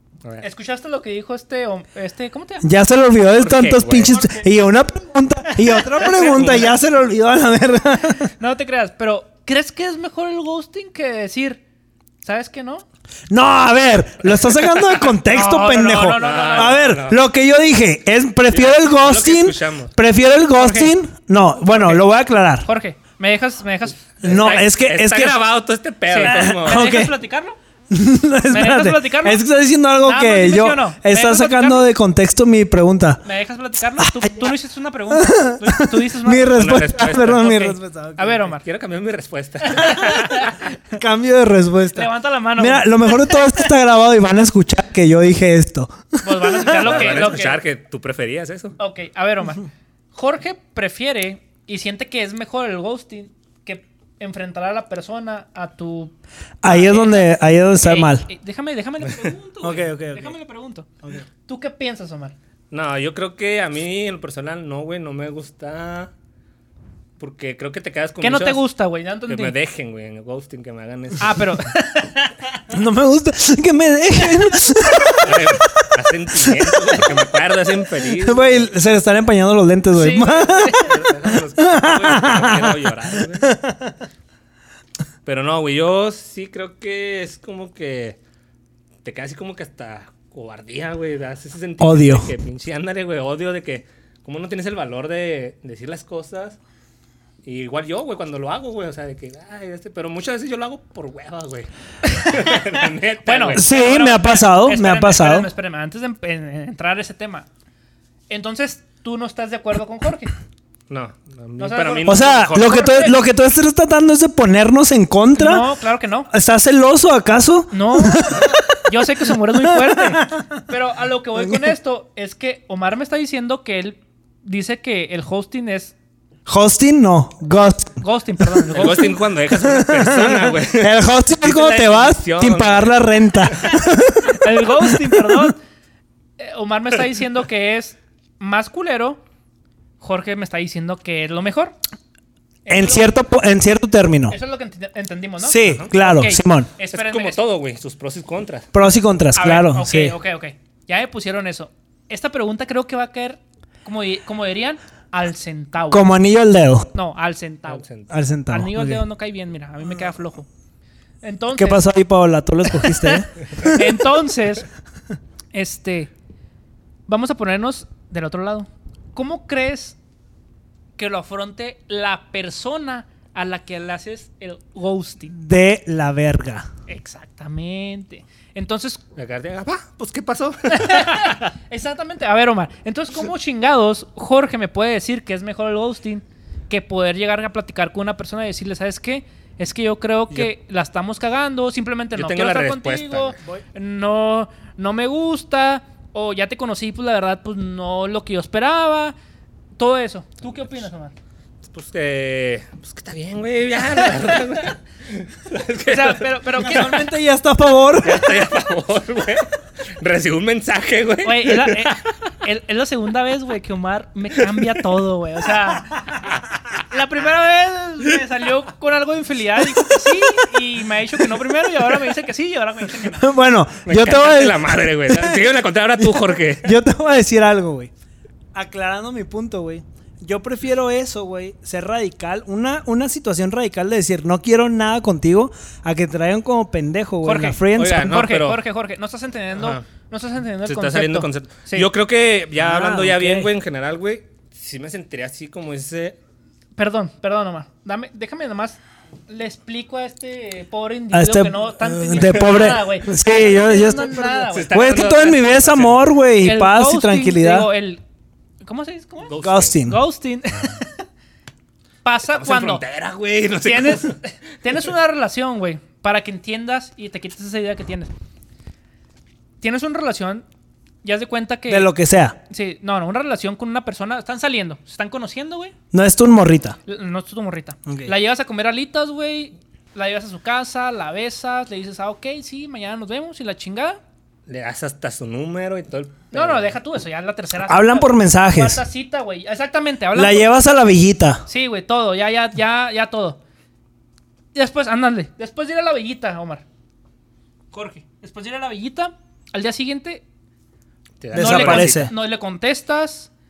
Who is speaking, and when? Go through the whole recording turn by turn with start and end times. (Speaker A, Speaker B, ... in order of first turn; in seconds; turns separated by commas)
Speaker A: 0.4-2.6, Speaker B: 2.6-8.3, Speaker C: 3.3-4.1, Speaker A: 4.1-4.4, Speaker A: 5.6-6.6, Speaker C: 6.0-6.7, Speaker A: 8.4-11.6, Speaker A: 12.2-12.8, Speaker B: 13.3-22.7, Speaker A: 15.3-16.9, Speaker C: 16.1-17.2, Speaker C: 18.5-19.9, Speaker A: 20.6-20.9, Speaker A: 21.7-22.0, Speaker A: 22.6-24.5, Speaker B: 24.2-25.4, Speaker C: 24.2-26.9, Speaker A: 26.1-27.6, Speaker B: 26.2-27.2, Speaker B: 27.9-33.2, Speaker A: 28.5-29.4, Speaker A: 30.0-31.9, Speaker A: 33.2-38.6, Speaker B: 34.0-34.5, Speaker B: 35.1-38.5, Speaker C: 36.5-37.7, Speaker C: 38.6-40.6, Speaker A: 39.7-40.5, Speaker B: 40.9-47.3, Speaker A: 41.9-43.5, Speaker A: 46.2-47.6, Speaker C: 46.8-48.8, Speaker A: 48.8-56.1, Speaker B: 56.6-58.2, Speaker A: 56.6-60.9, Speaker B: 59.6-60.3, Speaker A: 61.5-62.3, Speaker C: 62.7-66.1, Speaker C: 67.2-68.6, Speaker A: 68.2-69.5, Speaker C: 69.3-71.5, Speaker A: 71.2-72.4, Speaker B: 72.7-77.1, Speaker C: 75.2-78.7, Speaker B: 78.1-84.0, Speaker A: 79.9-80.9, Speaker C: 80.6-83.5, Speaker C: 85.2-88.2, Speaker C: 89.0-96.6, Speaker B: 91.8-92.3, Speaker C: 97.4-103.7, Speaker A: 102.1-107.5, Speaker B: 103.5-105.5, Speaker A: 108.3-110.3, Speaker C: 110.9-113.1, Speaker A: 111.6-113.1, Speaker B: 112.0-115.7, Speaker A: 115.3-116.3, Speaker B: 116.3-120.5, Speaker A: 117.7-125.9, Speaker B: 126.5-128.0, Speaker A: 128.0-129.2, Speaker C: 128.7-132.9, Speaker B: 129.5-135.5, Speaker A: 134.2-135.6, Speaker A: 136.4-139.2, Speaker A: 140.0-141.8, Speaker A: 142.6-143.2, Speaker B: 142.7-144.4, Speaker A: 144.3-147.4, Speaker B: 145.4-146.7, Speaker C: 145.6-145.9, Speaker C: 146.9-148.7, Speaker B: 148.7-150.1, Speaker A: 149.3-156.1, Speaker B: 155.9-156.9, Speaker A: 156.9-157.8, Speaker C: 157.7-158.1, Speaker B: 158.1-159.0, Speaker A: 158.5-160.5, Speaker A: 161.2-161.8, Speaker B: 161.6-163.8, Speaker A: 162.8-164.6, Speaker A: 165.5-166.1, Speaker A: 167.1-170.0, Speaker A: 171.0-175.3, Speaker B: 175.3-176.7, Speaker A: 176.9-179.0, Speaker C: 179.2-181.4, Speaker A: 180.7-199.1, Speaker C: 192.1-193.4, Speaker A: 199.8-201.1, Speaker C: 201.7-206.3, Speaker A: 205.8-207.1, Speaker B: 206.6-208.4, Speaker C: 208.0-211.9, Speaker A: 211.2-216.0, Speaker A: 216.9-223.2, Speaker B: 223.1-225.5, Speaker C: 223.8-226.7, Speaker B: 226.0-227.9, Speaker B: 228.5-238.2, Speaker A: 237.2-241.9, Speaker C: 237.7-238.6, Speaker C: 239.6-239.8, Speaker C: 240.6-246.2, Speaker B: 242.6-243.5, Speaker A: 246.8-254.8, Speaker B: 251.1-257.7, Speaker C: 252.2-252.7, Speaker C: 254.5-256.0, Speaker A: 256.4-258.0, Speaker A: 258.6-261.0, Speaker C: 259.3-259.7, Speaker B: 259.4-260.0, Speaker A: 262.0-262.8, Speaker C: 262.3-264.1, Speaker A: 263.6-268.1, Speaker A: 269.6-270.4, Speaker A: 271.0-271.9, Speaker B: 271.7-272.4, Speaker A: 272.5-275.7, Speaker B: 275.9-276.8, Speaker A: 276.9-284.0, Speaker B: 277.9-278.1, Speaker C: 284.5-286.7, Speaker A: 286.3-290.6, Speaker B: 287.7-288.8, Speaker B: 290.1-291.4, Speaker A: 291.5-293.4, Speaker A: 294.5-296.6, Speaker A: 297.7-300.2, Speaker C: 301.2-302.1, Speaker B: 301.3-302.1, Speaker A: 301.3-303.3